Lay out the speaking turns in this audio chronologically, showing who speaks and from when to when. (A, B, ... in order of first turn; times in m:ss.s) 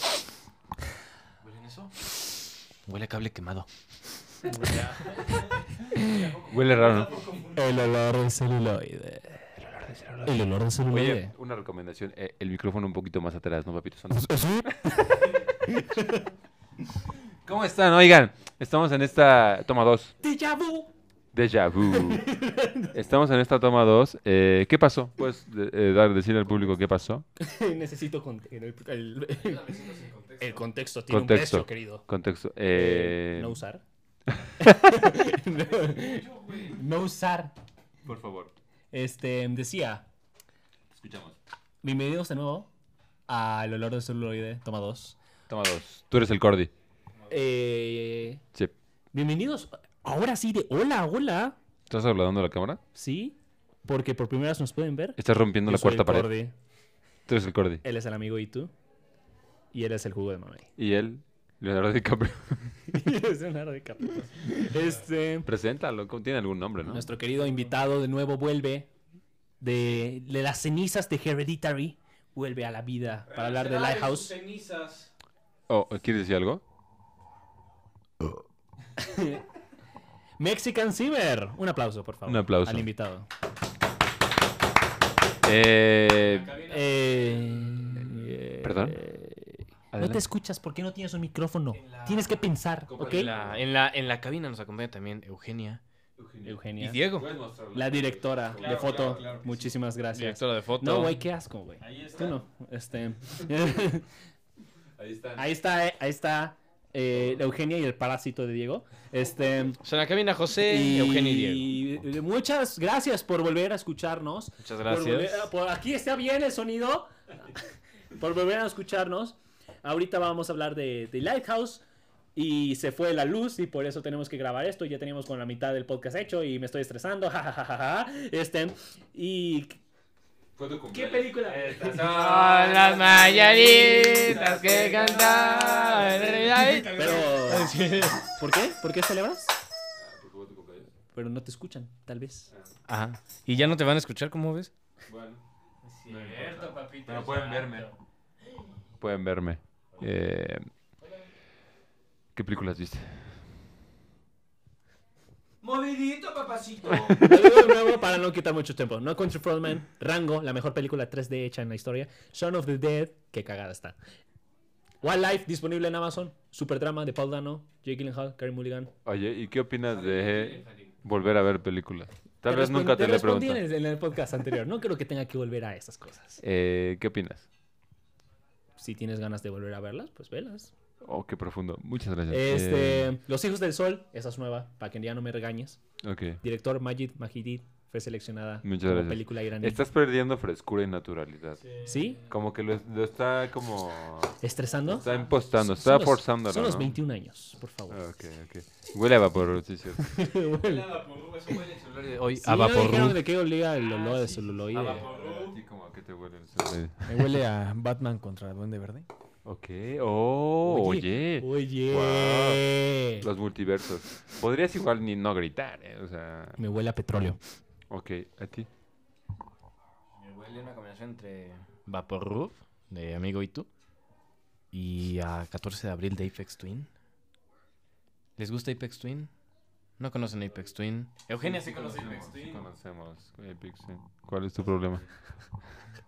0:01.4-0:02.0 A
0:02.8-0:03.7 A
0:04.3-0:05.2 A
0:06.0-0:06.3 B
0:06.4-0:07.4 C
0:07.3-0:11.3 B
0:10.9-0:14.5 C
0:14.2-0:16.2 B
0:17.4-0:20.2 C
0:20.2-0:20.9 B
0:21.3-0:22.3 C
0:21.9-0:22.9 B
0:22.9-0:27.2 C
0:27.4-0:29.7 B
0:29.3-0:30.7 A
0:30.4-0:32.0 B
0:31.1-0:33.6 C
0:32.7-0:33.8 B
0:34.4-0:34.8 C
0:34.6-0:37.6 B
0:35.7-0:36.7 A
0:38.0-0:38.5 C
0:38.9-0:40.0 B
0:40.9-0:41.4 C
0:41.8-0:42.7 B
0:43.3-0:45.2 B
0:45.5-0:46.7 C
0:47.3-0:48.4 B
0:49.1-0:51.6 B
0:51.9-0:52.8 C
0:52.9-0:56.5 B
0:55.2-0:56.3 C
0:57.3-0:57.8 C
0:57.8-0:58.7 B
0:59.7-1:00.7 B
1:00.8-1:03.0 C
1:02.9-1:05.5 B
1:05.4-1:07.1 C
1:06.9-1:08.9 B
1:09.6-1:14.4 B
1:13.3-1:15.1 A
1:15.7-1:16.6 C
1:19.0-1:19.4 B
1:20.4-1:23.3 B
1:22.2-1:22.9 C
1:25.4-1:26.6 C
1:26.1-1:27.8 A
1:26.6-1:33.3 B
1:28.6-1:29.0 C
1:29.9-1:30.2 C
1:31.7-1:32.4 A
1:32.8-1:33.6 C
1:33.0-1:35.8 A
1:36.2-1:39.4 C
1:36.4-1:37.0 B
1:36.8-1:37.3 A
1:37.7-1:44.1 B
1:38.5-1:39.7 D
1:40.1-1:41.2 A
1:41.8-1:42.4 D
1:45.0-1:45.5 C
1:45.4-1:49.8 B
1:47.1-1:47.4 C
1:49.8-1:51.8 A
1:50.6-1:57.2 B
1:54.6-1:55.5 A
1:58.2-2:01.8 B
2:02.3-2:09.8 B
2:10.6-2:16.7 C
2:11.3-2:18.4 A
2:16.8-2:19.5 B
2:20.0-2:20.9 C
2:21.1-2:22.5 B
2:22.9-2:24.7 A
2:25.0-2:25.4 C
2:25.8-2:27.9 A
2:26.1-2:27.9 C
2:29.0-2:30.7 C
2:32.3-2:33.4 C
2:35.6-2:37.1 A
2:37.1-2:44.0 B
2:45.0-2:48.9 B
2:49.0-2:53.6 C
2:49.8-2:51.0 A
2:52.4-2:56.4 B
2:56.4-2:57.5 C
2:58.8-3:00.7 B
3:01.0-3:03.1 C
3:02.3-3:05.8 B
3:06.0-3:06.4 C
3:06.4-3:09.8 B
3:08.6-3:11.7 C
3:11.8-3:12.2 D
3:11.8-3:12.2 B
3:12.2-3:16.9 C
3:14.4-3:18.0 B
3:17.9-3:20.1 C
3:20.0-3:21.0 B
3:20.5-3:23.3 A
3:22.4-3:25.1 B
3:23.8-3:25.6 A
3:25.0-3:27.3 C
3:27.0-3:29.1 D
3:29.4-3:32.6 C
3:30.6-3:33.3 B
3:33.2-3:36.6 C
3:36.6-3:37.4 B
3:37.9-3:38.7 C
3:40.1-3:43.7 A
3:44.7-3:46.9 A
3:48.4-3:49.3 A
3:50.0-3:52.7 A
3:51.4-3:55.0 C